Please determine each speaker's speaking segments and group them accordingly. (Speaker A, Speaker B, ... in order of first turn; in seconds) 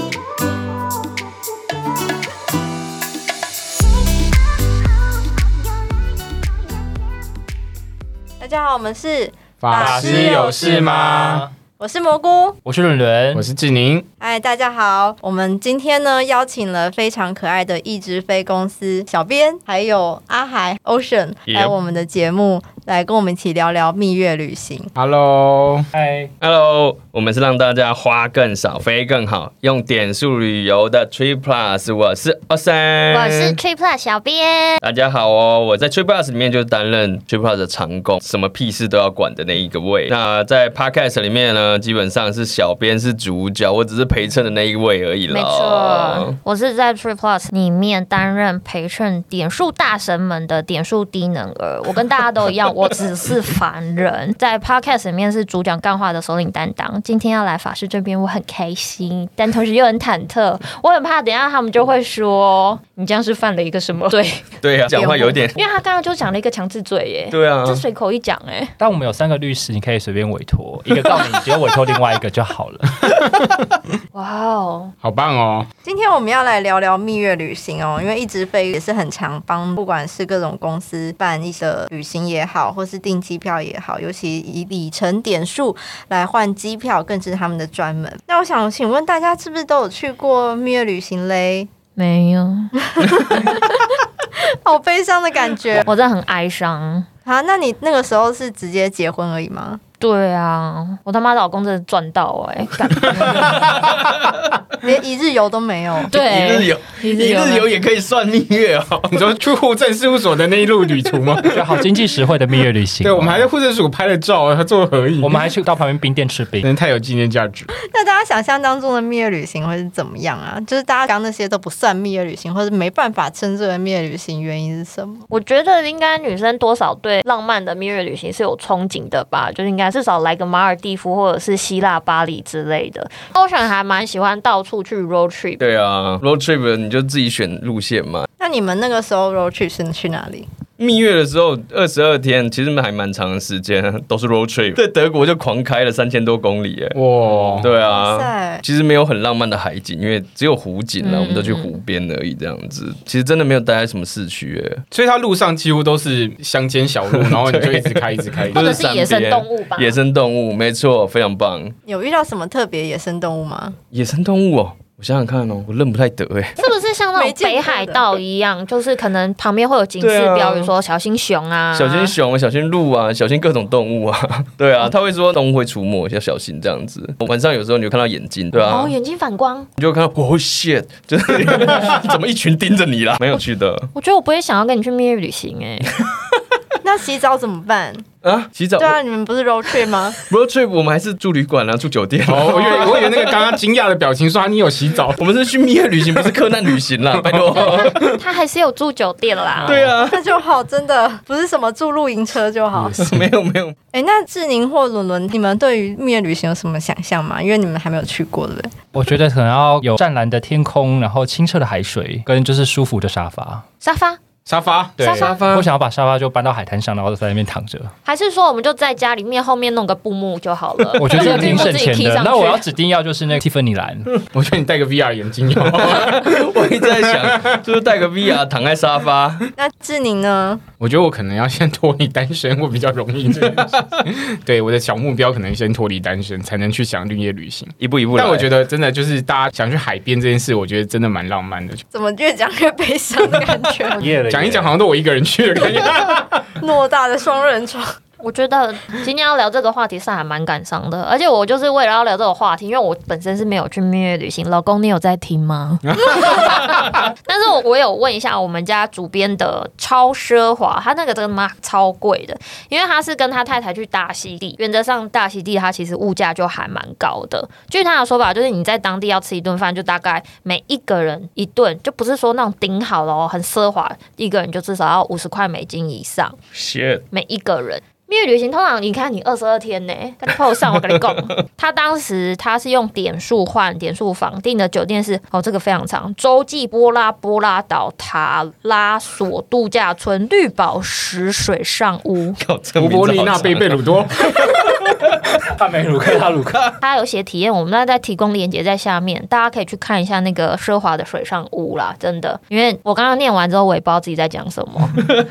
Speaker A: 8.4-10.8, 11.8-12.6, 14.2-24.9, 64.9-65.5, 75.8-91.7, 92.8-95.9, 97.2-99.8, 104.8-106.1, 117.7-125.2, 138.4-140.5, 147.8-148.6, 161.9-163.8, 167.2-168.2, 186.8-188.1, 188.8-190.2, 200.0-203.0, 203.9-208.9, 229.6-230.6, 241.9-244.1, 245.6-245.9, 246.6-248.0
Speaker B: 9.6-11.4, 13.3-14.1, 25.0-25.9, 75.0-75.7, 109.1-111.8, 113.0-115.5, 116.6-117.7, 146.9-147.7, 154.9-158.8, 192.3-195.2, 196.2-196.5, 197.1-198.2, 214.5-215.4, 224.3-226.4, 227.1-227.6, 230.8-241.8, 244.3-246.5, 255.9-256.4, 292.8-294.4
Speaker C: 9.8-11.5, 12.7-13.5, 25.9-26.3, 68.8-73.0, 111.5-113.5, 115.2-116.7, 208.9-213.6, 215.5-217.9, 220.9-224.1, 244.0-244.7, 294.3-294.9, 295.4-296.7
Speaker D: 21.5-21.7, 26.4-33.6, 34.8-46.3, 64.6-65.6, 67.3-67.8, 106.1-109.2, 135.6-138.3, 140.8-147.0, 147.6-154.8, 157.1-161.8, 163.9-166.6, 170.0-170.7, 171.7-178.9, 179.8-183.9, 188.2-189.0, 190.2-193.4, 195.2-198.1, 199.6-200.2, 202.9-203.8, 215.2-215.7, 221.0-221.4, 225.6-229.5, 237.8-238.5, 276.5-277.0, 280.8-281.2, 292.4-295.2
Speaker E: 33.1-34.8, 45.3-64.5, 65.5-68.7, 74.1-74.9, 92.0-92.8, 95.8-97.1, 100.0-103.6, 106.1-107.7, 125.3-135.6, 151.0-151.7, 158.5-160.0, 166.6-172.1, 178.5-179.7, 183.9-185.9, 197.6-199.8, 213.8-214.2, 215.0-215.4, 218.1-222.7, 248.2-276.4, 277.1-292.4, 296.8-305.0